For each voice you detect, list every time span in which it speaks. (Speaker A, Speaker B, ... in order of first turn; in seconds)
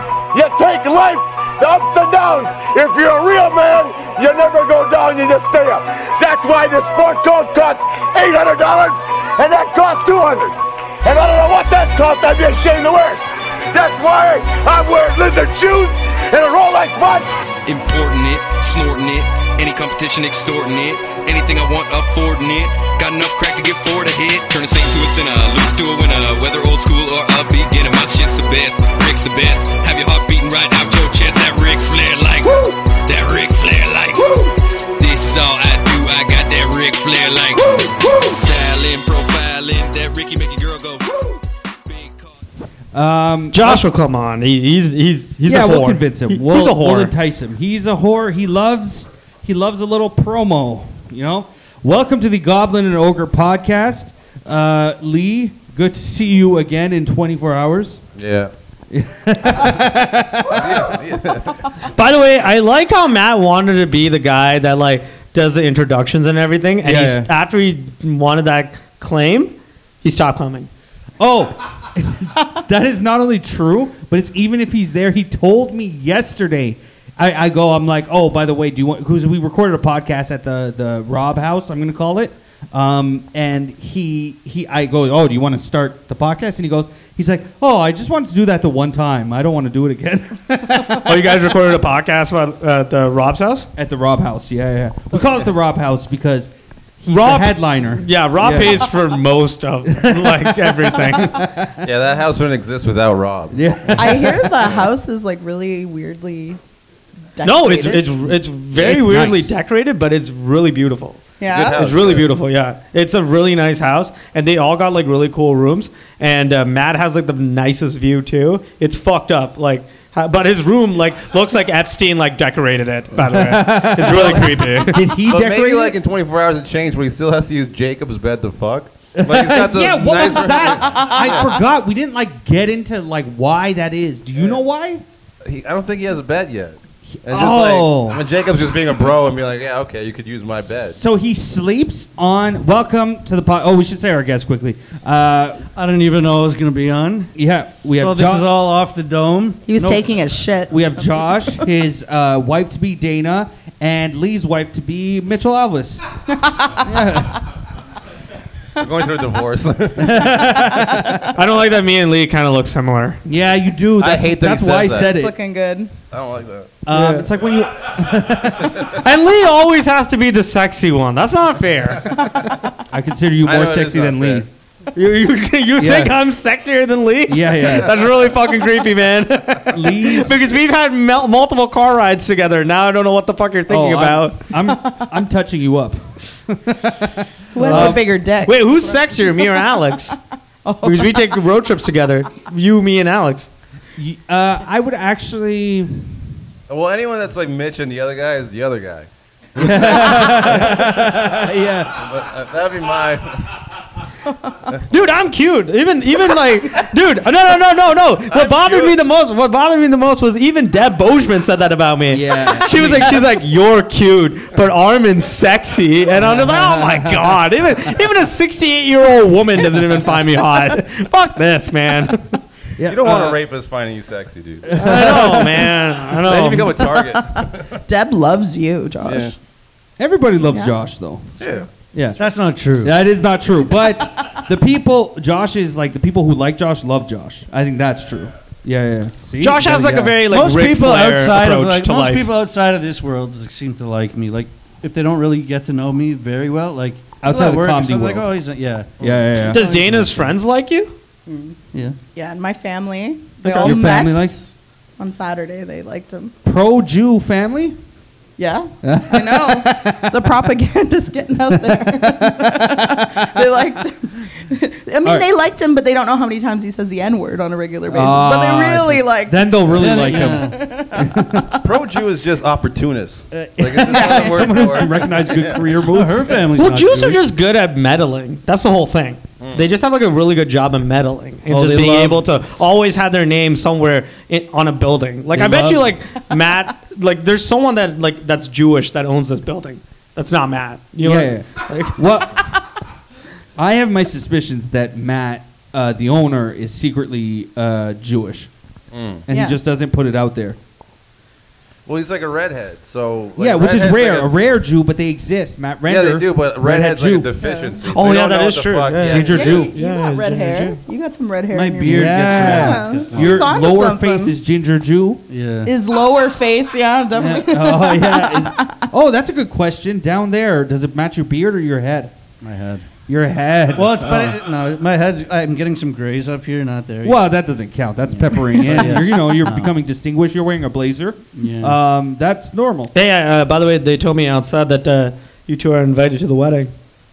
Speaker A: 0.3-17.3
Speaker B: 17.6-42.4
Speaker C: 42.9-43.9, 45.4-58.0, 58.9-61.0, 66.8-67.3, 71.2-91.3, 93.8-98.9, 99.8-101.8, 103.5-104.7, 108.8-109.5, 123.2-126.0, 129.1-135.0, 137.1-138.2, 140.7-145.7, 147.3-148.5, 150.7-156.0, 156.8-157.4, 159.9-161.2, 163.2-165.3, 166.8-169.0, 172.9-174.4, 175.8-176.2, 177.3-177.9, 179.7-180.4, 183.7-188.1, 193.9-196.3, 199.6-202.2, 212.1-213.2, 216.1-217.4, 222.8-223.4, 224.6-225.8, 230.0-231.2, 231.9-232.2, 232.8-240.2, 247.2-248.3, 249.0-249.6, 253.6-254.4, 256.4-257.8, 258.8-260.5, 261.5-263.7, 265.0-265.3, 267.9-271.5, 273.3-276.4, 281.5-282.2, 285.3-285.9, 291.0-292.5, 293.6-298.5, 299.2-300.6, 303.4-307.3, 309.0-309.7, 311.8-315.2, 317.1-322.1, 323.1-324.4, 327.0-332.9
Speaker D: 43.5-47.1, 61.8-70.7, 91.0-93.7, 97.1-101.4, 107.4-125.1, 161.3-163.2, 166.9-167.3, 168.9-172.1, 174.9-184.4, 187.6-190.2, 190.8-193.5, 204.9-222.4, 224.8-226.7, 239.4-242.3, 249.4-250.9, 253.4-254.0, 276.5-292.0, 307.9-310.8, 332.9-336.7
Speaker E: 58.1-58.5, 60.5-61.7, 101.8-103.9, 104.6-104.9, 111.5-112.3, 125.3-131.5, 135.4-141.0, 158.8-160.3, 164.0-165.1, 166.1-166.8, 173.4-174.5, 196.7-201.2, 201.9-203.6, 208.3-208.9, 222.9-225.2, 226.2-227.8, 229.0-229.3, 231.4-231.7, 271.6-275.7, 279.4-279.7, 298.9-299.2, 301.9-304.3, 305.9-309.6
Speaker F: 103.9-106.6, 107.3-108.3, 111.4-111.8, 130.9-131.4, 149.7-151.6, 156.3-157.4, 160.6-161.3, 165.0-165.9, 172.3-172.5, 184.7-185.1, 187.5-190.1, 190.6-191.4, 226.9-229.3, 230.5-230.7, 231.3-231.7, 251.3-251.6, 252.1-256.3, 258.4-271.7, 273.8-275.3, 299.3-299.6, 307.4-307.8, 309.1-314.3, 315.6-318.8
Speaker G: 145.8-147.3, 147.9-150.1, 232.2-232.9, 240.3-250.2, 269.8-270.6, 275.8-277.2, 311.5-313.5, 315.3-315.7, 322.4-322.9, 323.7-327.2, 328.1-329.7, 331.3-331.8